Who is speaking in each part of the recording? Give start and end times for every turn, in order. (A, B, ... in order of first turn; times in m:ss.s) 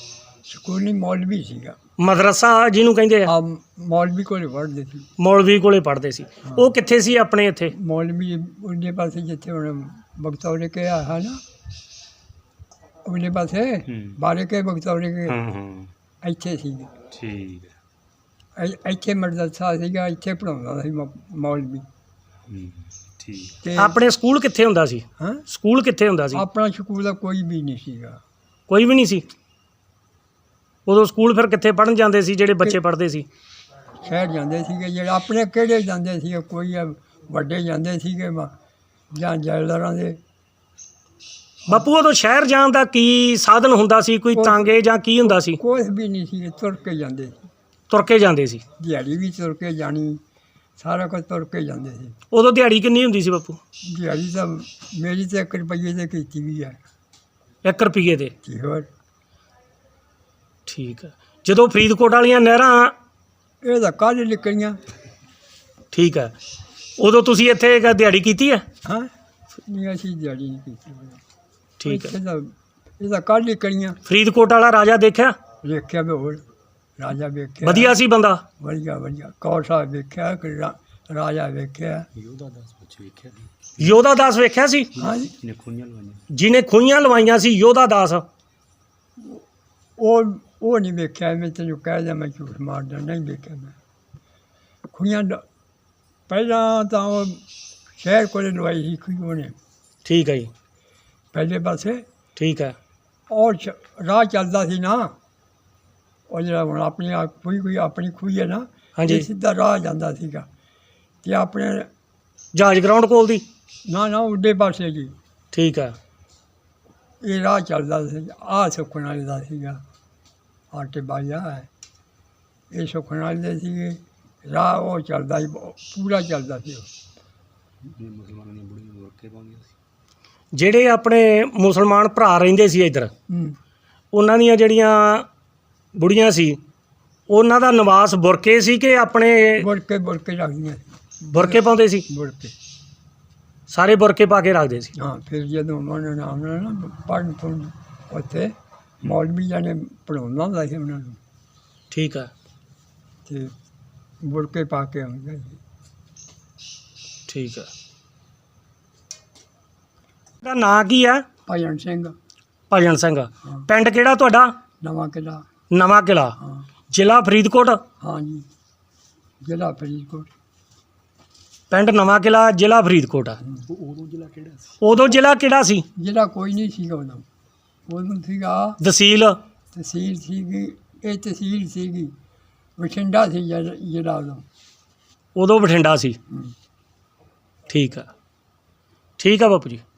0:00.4-0:01.8 A
0:02.0-0:03.3 B
0:03.2-0:05.1 A
0:05.2-0:07.7 B
0:06.4-0:06.7 A
0:07.7-0:11.4 A
0:13.0-0:15.4 A
0:13.9-0:14.2 C
0:15.2-0:15.9 C
0:16.2-0:16.9 A
0:17.1-0:17.7 C
0:18.6-0:21.8 A
0:22.5-0:23.6 C
0:23.6-0:24.0 A
0:23.8-0:26.4 B
0:25.2-0:25.4 A
0:26.3-0:28.2 A
0:28.7-0:29.2 B
0:30.8-0:33.2 B
0:34.0-0:38.5 A
0:39.1-0:40.2 A
0:41.7-0:45.6 B
0:44.3-0:44.7 A
0:45.2-0:47.5 A
0:47.9-0:48.6 B
0:48.8-0:50.2 A
0:50.8-0:52.1 A
0:52.3-0:53.6 B
0:53.9-0:56.8 A
0:57.6-0:58.3 B
0:58.4-0:58.9 A
1:00.6-1:02.9 B
1:03.6-1:04.8 A
1:05.9-1:06.3 B
1:07.0-1:08.6 B
1:08.8-1:09.1 A
1:09.6-1:11.2 A
1:11.8-1:12.1 B
1:11.8-1:14.0 A
1:14.0-1:15.4 B
1:15.6-1:16.4 A
1:17.0-1:18.0 A
1:17.6-1:18.4 B
1:18.6-1:22.1 A
1:22.2-1:23.9 C
1:23.8-1:24.9 B
1:25.0-1:25.3 A
1:25.0-1:26.3 C
1:26.3-1:28.2 B
1:30.0-1:33.7 A
1:34.9-1:35.4 A
1:36.3-1:37.4 A
1:38.0-1:39.5 A
1:40.0-1:40.5 B
1:41.3-1:42.0 A
1:42.4-1:42.8 B
1:43.3-1:45.1 A
1:46.3-1:50.5 A
1:49.0-1:49.2 B
1:51.2-1:51.9 A
1:52.5-1:53.4 B
1:53.8-1:55.1 A
1:55.5-1:56.0 B
1:57.2-1:59.8 A
2:00.7-2:01.7 A
2:02.7-2:06.9 A
2:07.8-2:09.7 C
2:10.5-2:13.1 B
2:13.3-2:13.6 A
2:14.1-2:15.3 B
2:15.9-2:16.6 B
2:17.3-2:19.7 B
2:19.6-2:22.5 A
2:21.3-2:22.0 B
2:23.7-2:24.9 B
2:25.0-2:31.2 A
2:31.9-2:32.3 B
2:33.2-2:33.5 A
2:34.2-2:35.6 A
2:37.3-2:37.7 B
2:40.4-2:41.2 B
2:41.4-2:42.1 A
2:42.7-2:44.5 B
2:44.8-2:45.4 A
2:45.7-2:46.4 B
2:46.4-2:46.6 A
2:46.9-2:47.8 B
2:48.0-2:48.5 A
2:49.4-2:50.3 A
2:51.7-2:53.4 B
2:53.7-2:54.8 C
2:54.8-2:55.8 B
2:55.9-2:57.2 A
2:57.9-2:58.8 A
2:58.8-2:59.4 B
2:59.7-3:02.1 A
3:02.8-3:04.4 A
3:05.4-3:06.2 B
3:07.7-3:08.1 B
3:09.2-3:09.8 B